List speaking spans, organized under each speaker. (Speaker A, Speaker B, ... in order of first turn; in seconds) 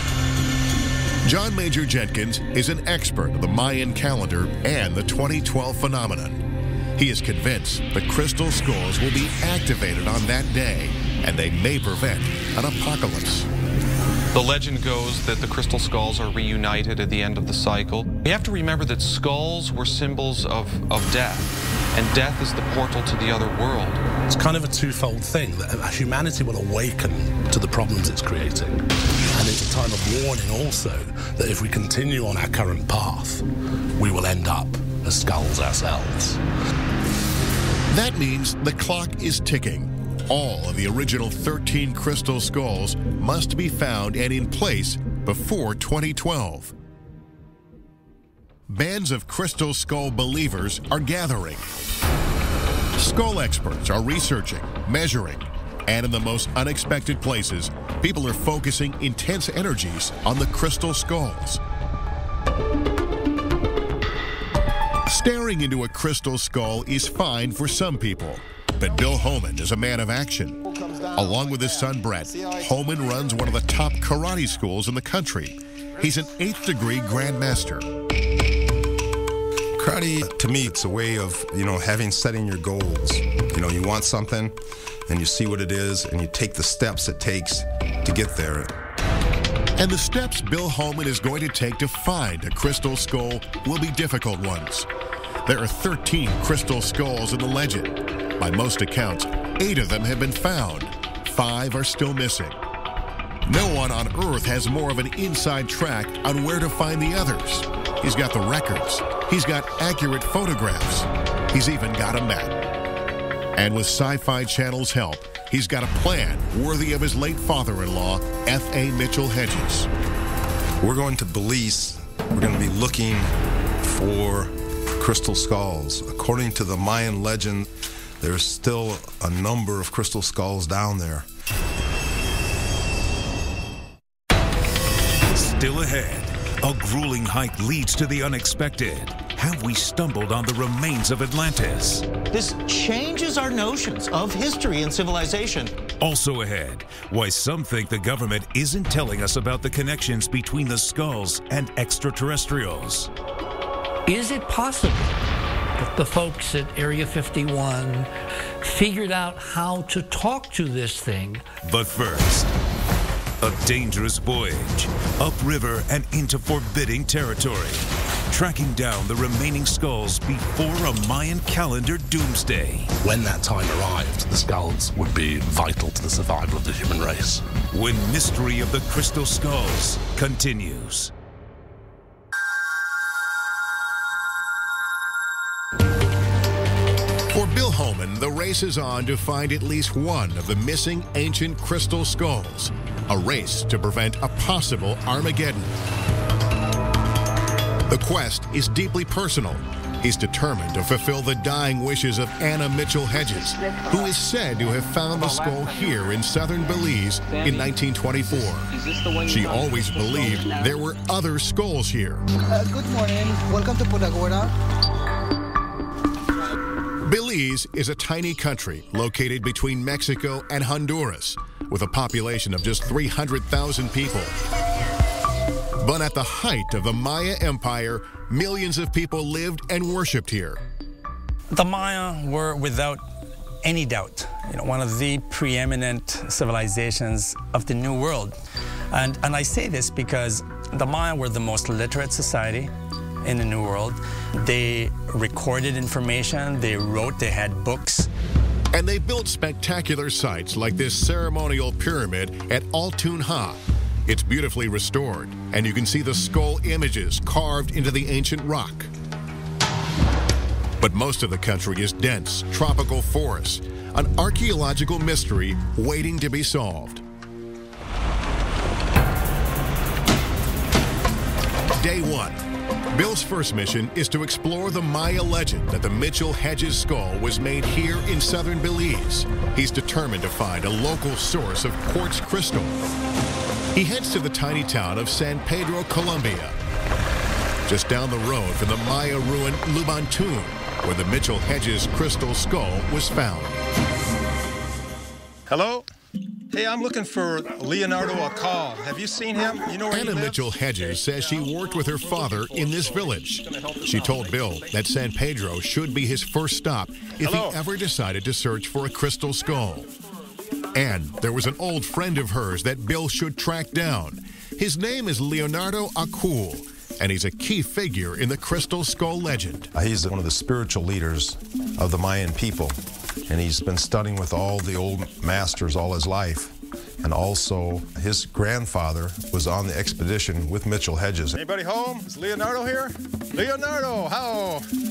Speaker A: 1.2-6.5, 7.0-13.5, 37.9-46.7, 48.7-51.7, 53.0-61.6, 65.1-70.6, 71.2-77.9, 89.8-94.9, 95.5-102.6, 103.5-112.6, 113.6-119.9, 187.3-195.7, 197.9-208.7, 209.2-212.2, 217.0-224.4, 225.8-230.6, 248.7-258.9, 260.8-267.0, 271.8-272.4, 272.9-282.9, 283.7-286.6, 287.7-293.6, 299.9-309.9, 310.7-319.7
Speaker B: 14.3-24.0
Speaker C: 24.3-33.5, 34.0-36.4, 173.0-177.4
Speaker D: 70.7-73.3, 295.5-295.9, 296.5-304.7, 307.2-307.6, 331.4-334.7
Speaker E: 79.8-84.5, 85.1-88.7, 120.8-127.7, 128.2-131.3, 319.8-322.8, 323.3-331.4
Speaker F: 135.3-142.1, 146.0-153.1, 161.6-162.5, 163.4-172.9, 177.7-181.1
Speaker G: 142.3-145.8
Speaker H: 154.1-155.2, 155.8-161.5
Speaker I: 203.4-204.1, 208.7-210.7, 212.3-214.5
Speaker J: 231.5-233.1, 233.6-238.4, 238.9-242.7, 243.2-248.1